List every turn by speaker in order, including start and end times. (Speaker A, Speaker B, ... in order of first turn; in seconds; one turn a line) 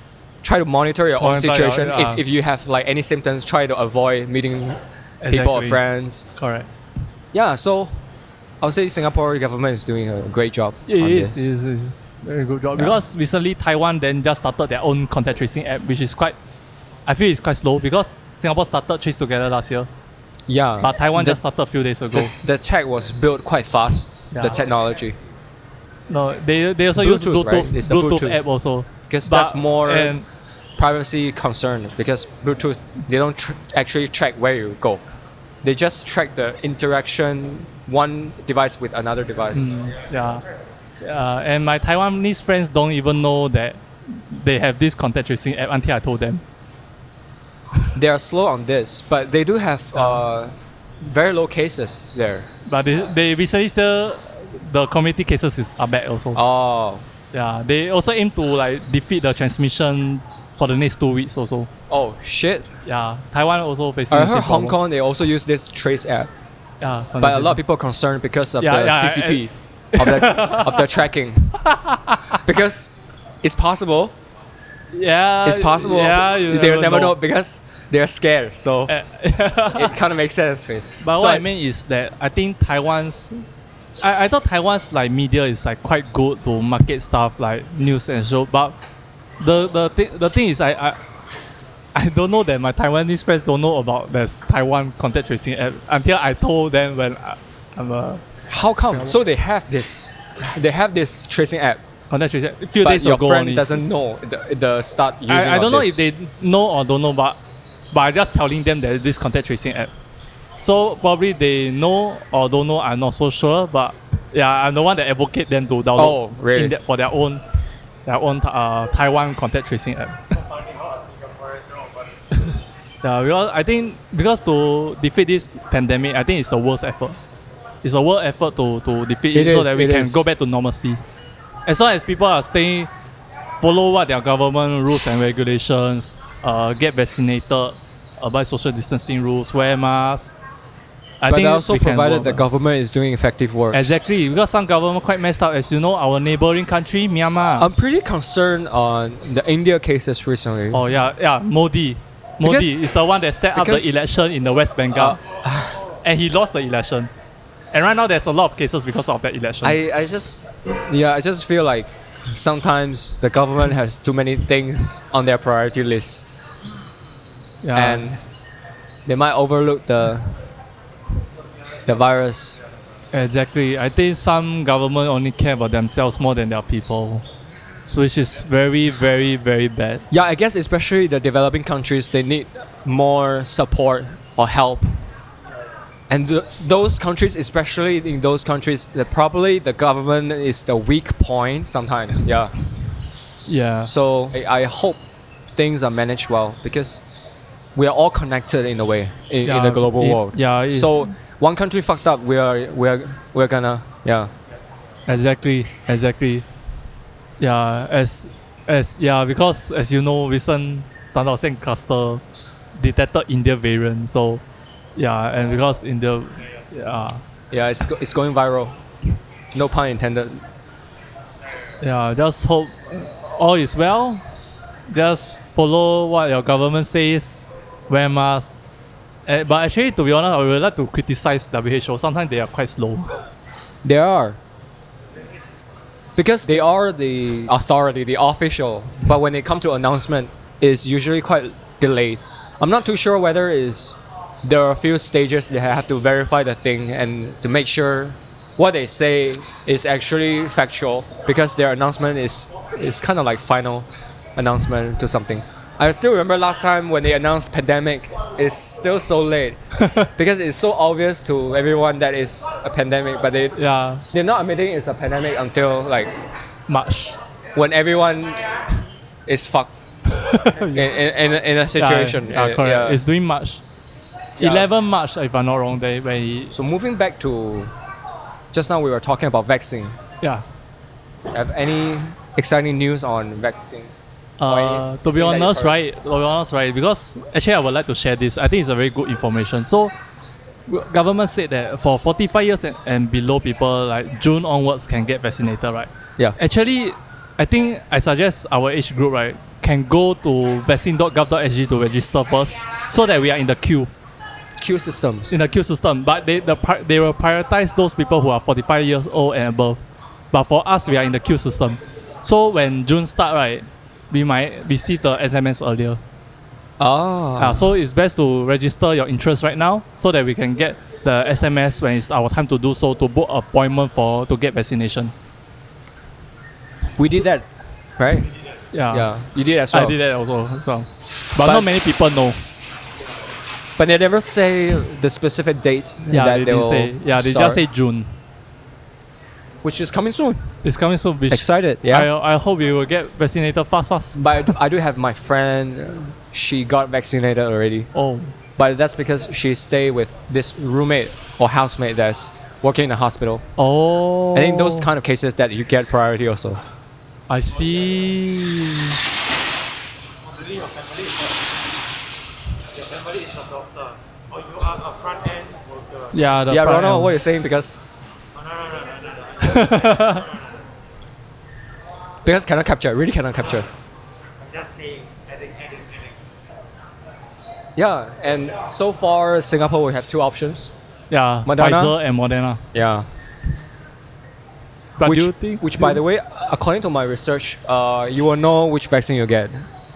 Speaker A: 0.4-6.2
Speaker B: 1.2-2.2
Speaker B: 5.2-5.8
Speaker B: 6.3-6.7
Speaker A: 7.3-8.0
Speaker A: 8.6-11.4
Speaker B: 10.9-16.3
Speaker B: 17.1-19.9
Speaker A: 20.5-21.4
Speaker B: 20.8-22.3
Speaker A: 22.1-25.1
Speaker B: 24.3-24.6
Speaker B: 26.1-30.2
Speaker A: 26.9-28.4
Speaker A: 29.1-30.2
Speaker A: 30.8-35.0
Speaker A: 35.6-39.7
Speaker B: 39.5-40.4
Speaker B: 41.0-46.4
Speaker A: 47.9-52.5
Speaker B: 50.0-50.2
Speaker B: 52.6-56.4
Speaker A: 56.3-57.0
Speaker B: 57.3-61.7
Speaker A: 61.9-62.7
Speaker B: 62.8-64.8
Speaker A: 64.1-66.3
Speaker B: 66.8-67.6
Speaker A: 67.2-71.5
Speaker B: 68.6-69.4
Speaker B: 69.9-70.9
Speaker B: 71.6-72.4
Speaker A: 72.4-72.9
Speaker A: 73.4-74.1
Speaker B: 74.9-77.1
Speaker A: 75.4-78.9
Speaker B: 78.9-79.9
Speaker A: 79.7-81.4
Speaker B: 81.0-83.4
Speaker B: 84.0-88.8
Speaker B: 89.4-91.0
Speaker B: 91.9-98.2
Speaker A: 98.5-101.8
Speaker B: 98.9-99.2
Speaker B: 102.1-103.8
Speaker A: 102.8-106.0
Speaker B: 105.3-107.4
Speaker B: 107.9-109.9
Speaker B: 110.6-117.4
Speaker A: 115.9-116.8
Speaker B: 118.0-120.4
Speaker C: 120.3-122.1
Speaker B: 122.3-127.2
Speaker B: 127.8-131.0
Speaker A: 129.3-130.2
Speaker B: 131.7-132.9
Speaker B: 133.6-140.3
Speaker B: 141.2-142.4
Speaker A: 141.3-144.0
Speaker B: 143.7-147.7
Speaker A: 147.6-150.8
Speaker B: 150.7-155.2
Speaker A: 152.4-152.8
Speaker A: 153.5-154.1
Speaker A: 154.9-155.8
Speaker B: 156.0-157.1
Speaker B: 157.7-159.8
Speaker A: 159.6-166.3
Speaker B: 167.6-168.1
Speaker A: 167.7-168.2
Speaker A: 169.1-170.4
Speaker A: 171.8-172.6
Speaker B: 173.1-177.2
Speaker B: 177.8-180.0
Speaker A: 180.1-185.0
Speaker A: 186.1-192.5
Speaker B: 193.4-193.9
Speaker A: 193.8-195.0
Speaker A: 195.5-197.0
Speaker A: 197.7-204.3
Speaker B: 199.4-201.1
Speaker B: 205.1-206.4
Speaker B: 207.4-212.2
Speaker B: 212.8-214.4
Speaker B: 214.9-217.2
Speaker A: 217.5-218.8
Speaker A: 219.5-220.4
Speaker B: 221.8-224.2
Speaker B: 224.9-228.6
Speaker B: 229.3-233.3
Speaker A: 233.8-234.4
Speaker A: 236.2-259.6
Speaker B: 259.8-260.1
Speaker A: 260.1-263.6
Speaker B: 263.5-264.0
Speaker A: 264.1-266.2
Speaker B: 266.7-267.2
Speaker A: 267.5-268.6
Speaker A: 269.2-269.8
Speaker B: 270.1-271.0
Speaker A: 270.6-273.0
Speaker B: 271.8-273.6
Speaker A: 274.4-274.7
Speaker B: 274.4-276.5
Speaker A: 276.5-277.7
Speaker A: 278.5-279.9
Speaker A: 281.3-283.9
Speaker B: 284.4-289.9
Speaker A: 284.5-285.8
Speaker B: 290.7-303.9
Speaker A: 304.6-305.3
Speaker B: 305.3-309.8
Speaker B: 310.3-316.0
Speaker A: 316.8-317.6
Speaker B: 317.4-325.1
Speaker A: 327.0-328.3
Speaker B: 328.7-329.1
Speaker A: 328.9-330.0
Speaker B: 329.7-332.4
Speaker A: 331.4-331.7
Speaker A: 333.8-337.6
Speaker B: 336.1-338.1
Speaker A: 339.6-340.5
Speaker B: 340.6-344.5
Speaker A: 341.3-342.1
Speaker A: 344.1-347.9
Speaker B: 347.9-348.3
Speaker A: 348.6-353.4
Speaker B: 353.6-354.9
Speaker A: 354.3-356.6
Speaker B: 357.3-359.0
Speaker C: 360.3-361.4
Speaker C: 362.7-366.2
Speaker B: 366.1-367.1
Speaker A: 366.5-367.8
Speaker C: 368.3-370.4
Speaker B: 369.4-370.3
Speaker A: 372.2-373.7
Speaker C: 374.4-376.2
Speaker A: 377.8-380.7
Speaker B: 381.1-382.6
Speaker A: 381.4-381.9
Speaker A: 382.7-383.1
Speaker B: 385.0-386.0
Speaker A: 385.0-389.7